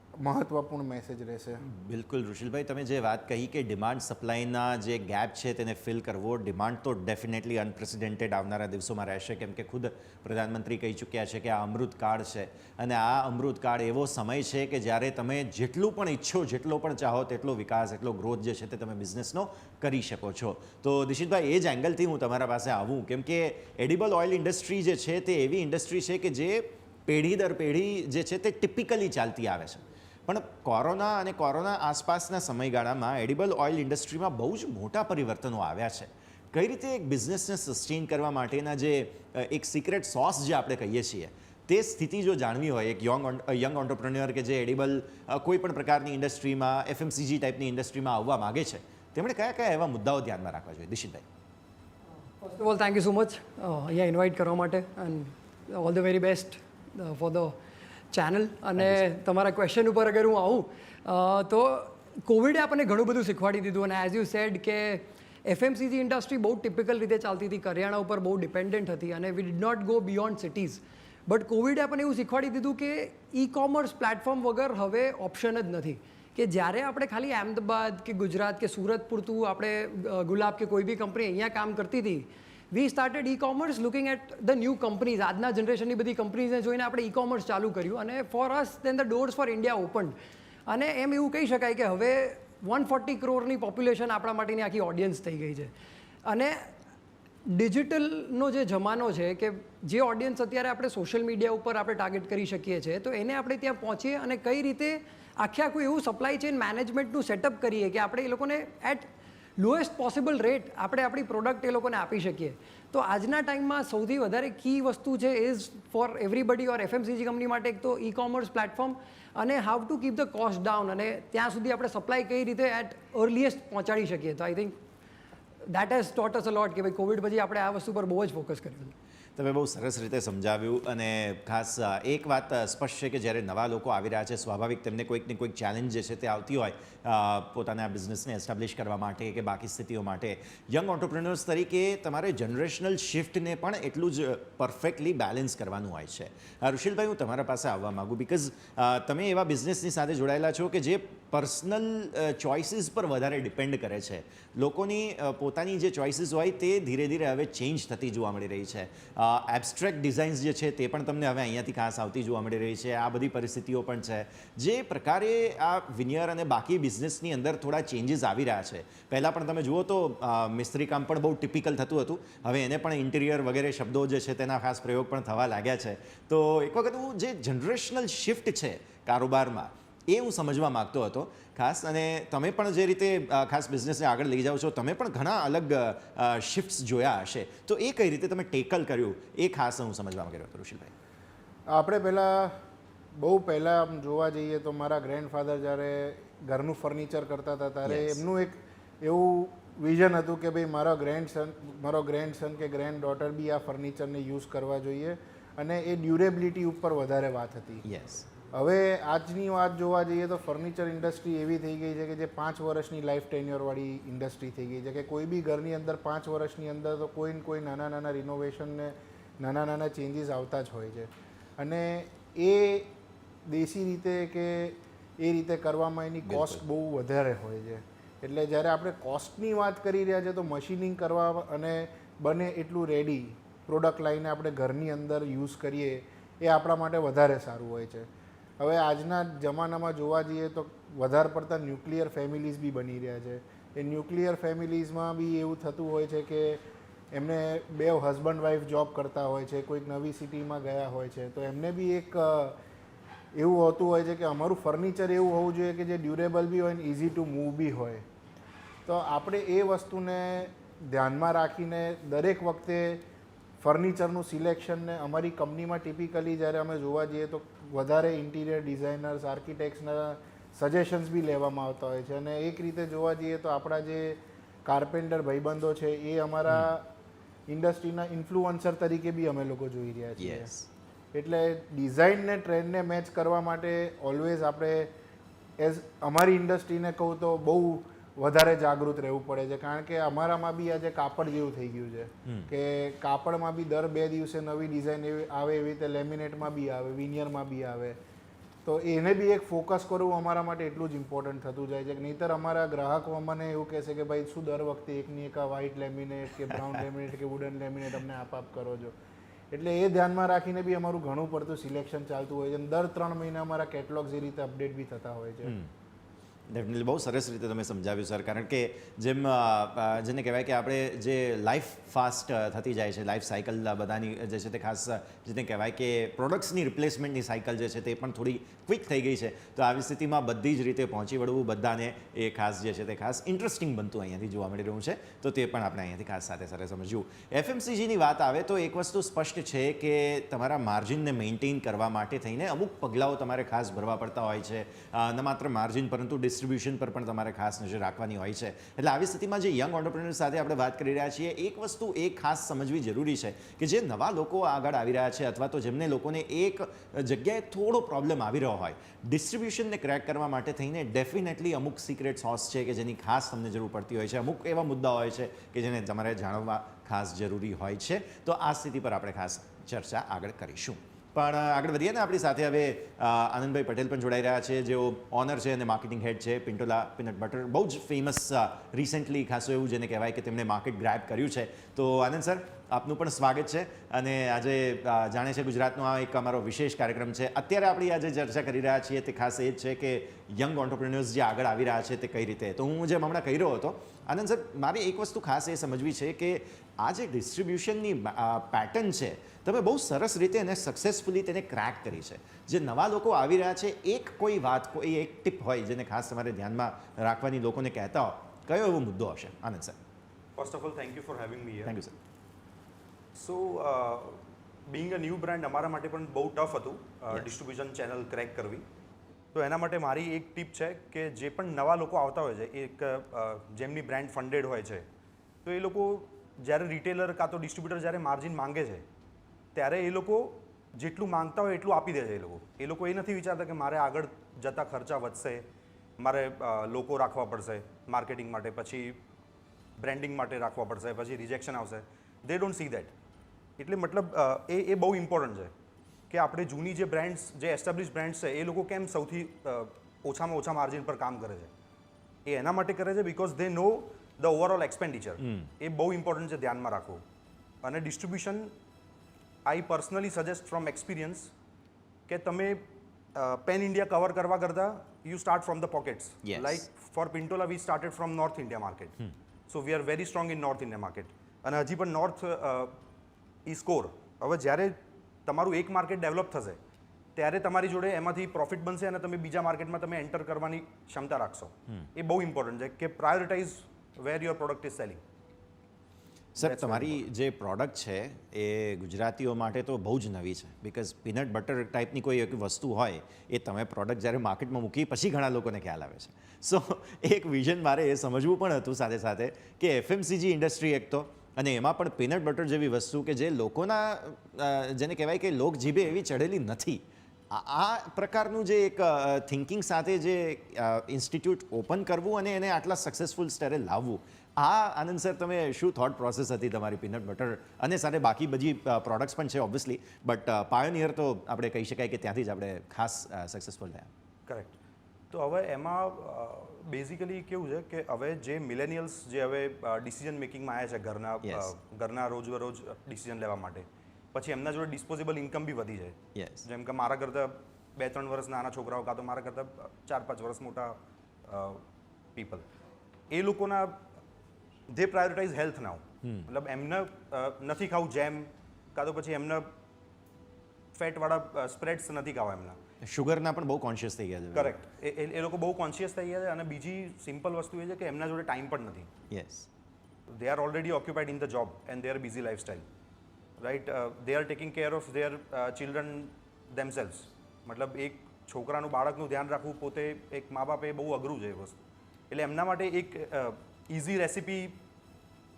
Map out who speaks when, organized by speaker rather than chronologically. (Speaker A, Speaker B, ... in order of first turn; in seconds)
Speaker A: 0.2-1.6, 191.7-192.5, 193.1-207.8, 208.5-222.9, 223.5-238.1, 238.6-246.6, 247.1-252.6, 253.3-258.0, 258.9-263.0, 263.6-276.9, 277.5-280.5, 281.1-284.9, 285.6-297.9, 298.6-308.9, 309.5-315.5
Speaker B: 1.6-51.2, 58.8-59.0, 129.3-190.9, 197.8-198.2, 207.8-208.3, 226.2-226.6, 280.2-280.7, 292.2-292.5, 315.4-315.7, 316.5-409.8, 411.6-411.9, 455.2-455.5, 466.2-466.6, 486.4-523.9, 531.2-531.5, 536.1-536.5, 546.0-546.3, 552.8-554.6, 559.1-559.5
Speaker C: 52.3-57.5, 58.1-90.1, 90.7-95.7, 96.2-96.7, 97.5-124.8, 125.7-128.9
Speaker D: 410.4-411.8, 413.1-418.6, 419.3-424.9, 425.4-428.8, 429.5-435.4, 436.0-439.0, 439.8-442.9, 443.6-445.5, 446.1-451.5, 452.2-457.0, 457.6-458.5, 459.4-461.3, 462.1-468.9, 469.5-472.8, 473.4-476.6, 477.1-485.0, 486.4-487.0, 524.3-524.5, 525.1-541.6, 542.1-542.4, 543.1-543.8, 544.7-549.5, 550.7-552.6, 554.3-558.9, 560.1-562.6, 563.4-571.5, 572.1-574.6